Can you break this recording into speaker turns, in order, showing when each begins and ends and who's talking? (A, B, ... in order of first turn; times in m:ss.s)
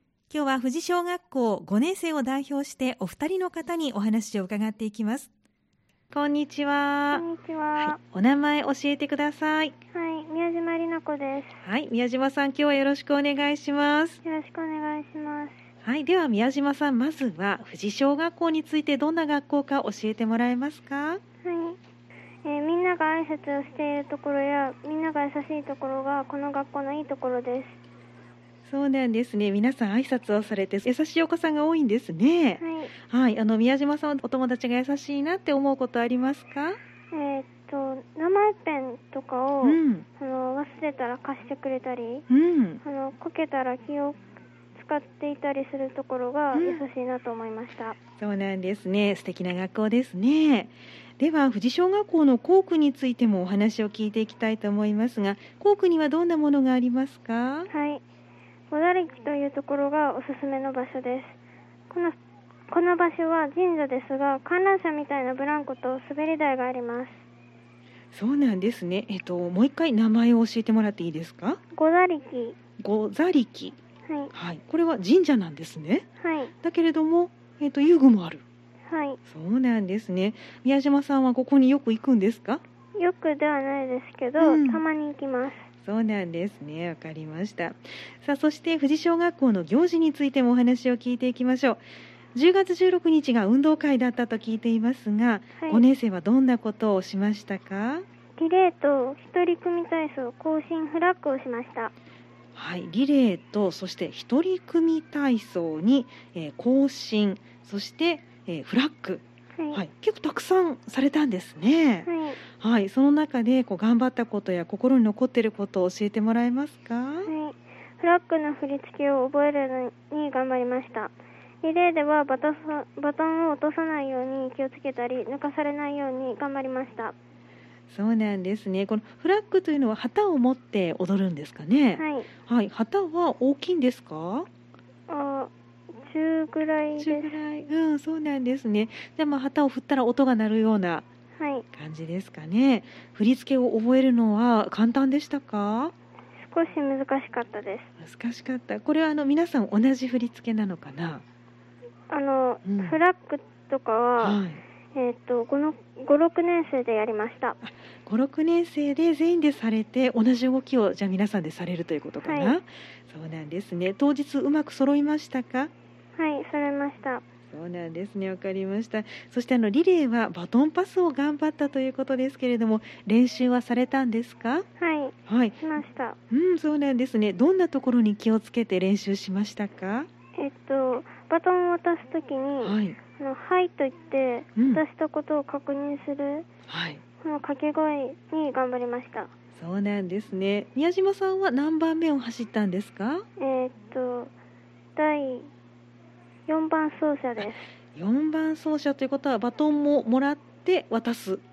0:00.3-0:05.3 A
0:06.1-0:07.2 A
0:07.1-0:08.0 B
0:07.8-0:09.7 A
0:09.9-0:11.6 B
0:11.6-0:14.2 A
0:14.2-0:15.6 B
0:15.8-0:21.2 A
0:21.4-0:21.8 B
0:22.4-0:27.8 B
0:28.6-0:36.8 A
0:32.6-0:32.9 B
0:37.1-0:42.2 B
0:39.6-0:40.0 A
0:42.3-0:42.8 A
0:42.8-0:44.2 B
0:44.7-0:48.0 B
0:46.5-0:46.8 A
0:48.2-0:57.7 A
0:57.7-0:58.0 B
0:58.7-1:01.4 B
1:01.9-1:02.2 B
1:02.7-1:07.2 B
1:08.1-1:11.6 A
1:11.7-1:12.6 B
1:12.8-1:13.8 A
1:14.1-1:14.3 B
1:14.3-1:16.0 A
1:16.2-1:16.5 B
1:16.6-1:18.4 A
1:18.9-1:19.2 B
1:19.3-1:22.6 A
1:23.0-1:25.7 B
1:24.4-1:24.8 A
1:25.8-1:31.8 A
1:32.3-1:38.0 A
1:38.4-1:41.9 B
1:42.5-1:57.3 A
1:52.0-1:52.4 B
1:57.2-2:01.1 B
2:01.6-2:07.1 B
2:07.9-2:14.5 A
2:12.0-2:12.3 B
2:15.1-2:17.3 B
2:17.0-2:21.0 A
2:21.4-2:21.6 B
2:21.7-2:25.9 A
2:26.4-2:27.9 B
2:28.0-2:31.2 A
2:32.1-2:34.4 B
2:32.6-2:33.0 A
2:34.2-2:34.6 A
2:34.9-2:37.6 B
2:37.6-2:45.7 A
2:42.2-2:42.6 B
2:46.2-2:47.2 B
2:47.5-2:54.6 A
2:54.8-2:56.2 B
2:55.2-2:55.6 A
2:56.3-3:00.1 A
3:00.4-3:06.5 B
3:02.6-3:03.0 A
3:04.6-3:04.8 A
3:06.7-3:07.0 A
3:07.2-3:09.3 B
3:09.5-3:13.2 A
3:13.4-3:14.3 B
3:15.0-3:15.5 B
3:16.5-3:17.7 B
3:17.9-3:21.4 A